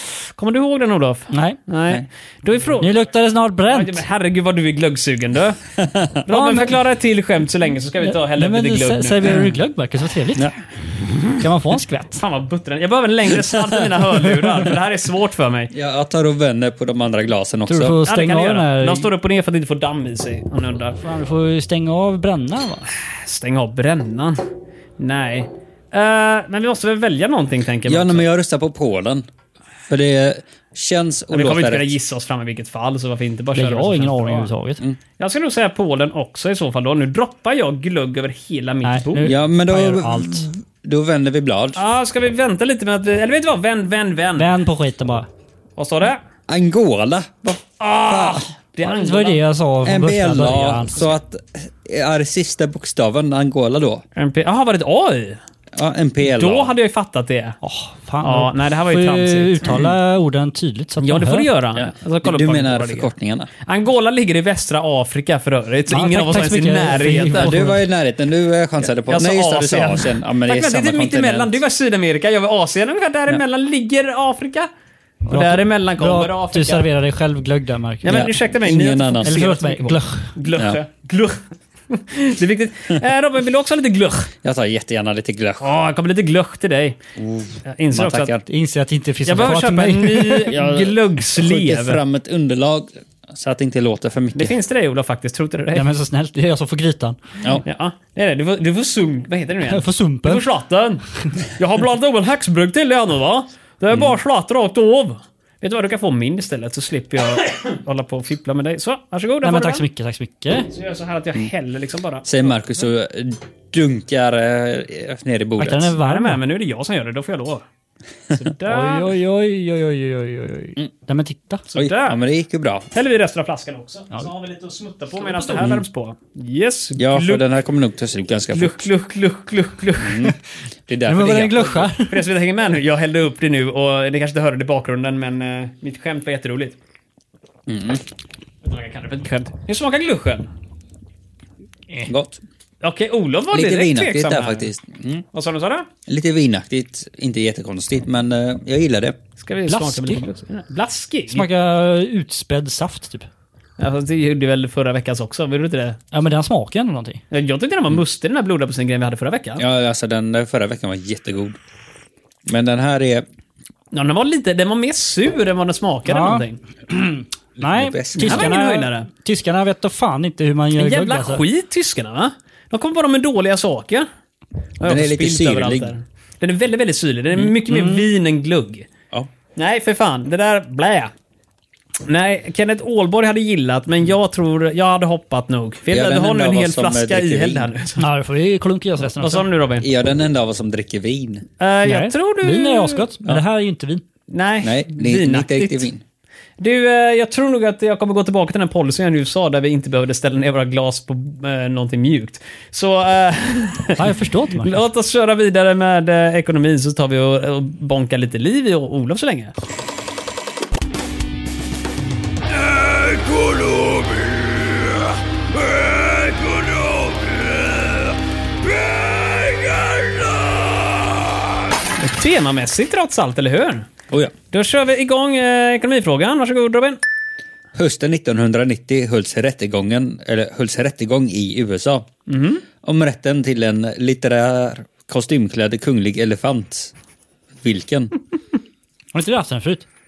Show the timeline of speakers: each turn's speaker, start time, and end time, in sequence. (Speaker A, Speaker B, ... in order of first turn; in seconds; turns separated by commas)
Speaker A: 0.4-2.9, Speaker B: 1.3-1.6, Speaker B: 2.8-4.0, Speaker A: 3.7-5.6, Speaker C: 5.8-6.3, Speaker A: 6.2-9.4, Speaker B: 6.3-6.7, Speaker B: 8.0-10.5, Speaker B: 11.4-12.2, Speaker A: 12.2-15.7, Speaker C: 15.7-18.0, Speaker B: 17.7-19.1, Speaker A: 18.1-21.0, Speaker B: 21.0-22.9, Speaker A: 23.1-24.4, Speaker A: 25.0-28.2, Speaker C: 27.9-29.2, Speaker C: 29.9-31.9, Speaker A: 31.3-34.5, Speaker B: 33.5-34.8, Speaker A: 35.2-39.4, Speaker B: 38.8-40.5, Speaker C: 39.2-41.8, Speaker A: 41.8-44.5, Speaker B: 44.4-45.3, Speaker A: 45.8-46.2, Speaker C: 46.5-48.4, Speaker A: 47.8-49.4, Speaker B: 48.9-51.1, Speaker C: 49.8-54.0, Speaker A: 54.1-55.4, Speaker C: 55.7-56.7, Speaker A: 56.2-57.6, Speaker B: 57.6-61.5, Speaker A: 58.2-59.7, Speaker C: 59.7-59.9, Speaker A: 61.0-63.1, Speaker C: 61.7-63.5, Speaker A: 63.6-67.6, Speaker B: 65.9-67.8, Speaker C: 67.3-71.6, Speaker A: 69.0-74.7, Speaker A: 75.3-76.9, Speaker B: 75.3-78.2, Speaker A: 78.0-84.3, Speaker C: 78.1-79.4, Speaker B: 79.2-80.3, Speaker C: 80.5-80.8, Speaker C: 84.4-85.7, Speaker A: 85.6-87.0, Speaker C: 87.2-88.4, Speaker A: 87.7-88.3, Speaker B: 88.5-90.5, Speaker A: 89.2-92.0, Speaker C: 90.5-94.5, Speaker A: 94.3-95.9, Speaker B: 95.7-97.2, Speaker A: 97.6-101.0, Speaker B: 99.7-100.4, Speaker A: 101.6-109.8, Speaker B: 109.4-110.7, Speaker A: 110.7-112.4, Speaker C: 112.2-115.9, Speaker B: 115.6-116.4, Speaker A: 116.0-117.6, Speaker A: 118.3-119.1, Speaker B: 118.7-121.6, Speaker A: 121.7-122.2, Speaker C: 121.7-122.9, Speaker A: 122.9-127.4, Speaker C: 127.0-128.8, Speaker A: 128.5-130.3, Speaker C: 130.0-130.3, Speaker C: 130.9-131.9, Speaker B: 131.1-132.2, Speaker A: 132.1-136.8, Speaker C: 137.7-138.0, Speaker A: 138.6-140.5, Speaker C: 142.0-142.4, Speaker A: 142.8-144.7, Speaker C: 143.5-145.2, Speaker A: 145.3-145.9, Speaker C: 146.1-149.2, Speaker A: 149.4-151.5, Speaker B: 149.7-150.2, Speaker B: 151.3-153.3, Speaker A: 153.8-156.0, Speaker B: 156.1-157.2, Speaker A: 157.3-159.6, Speaker C: 159.6-161.6, Speaker C: 162.4-163.2, Speaker A: 163.9-166.6, Speaker B: 166.1-171.4, Speaker C: 167.6-168.5, Speaker A: 168.2-169.1, Speaker A: 170.8-174.1, Speaker A: 174.8-178.9, Speaker C: 174.8-175.9, Speaker B: 177.7-178.0, Speaker A: 179.6-181.1, Speaker A: 182.1-188.0, Speaker C: 185.9-187.7, Speaker B: 188.0-189.5, Speaker A: 189.2-189.9, Speaker C: 189.8-191.4, Speaker A: 191.6-193.1, Speaker B: 191.8-194.0, Speaker A: 194.3-195.9, Speaker C: 194.6-196.0, Speaker A: 196.6-209.5, Speaker B: 203.9-204.8, Speaker C: 212.6-221.6, Speaker A: 222.0-223.9, Speaker A: 224.5-227.0, Speaker C: 227.7-232.1, Speaker A: 232.3-232.6, Speaker C: 232.8-236.9, Speaker C: 237.6-238.1, Speaker B: 239.1-239.8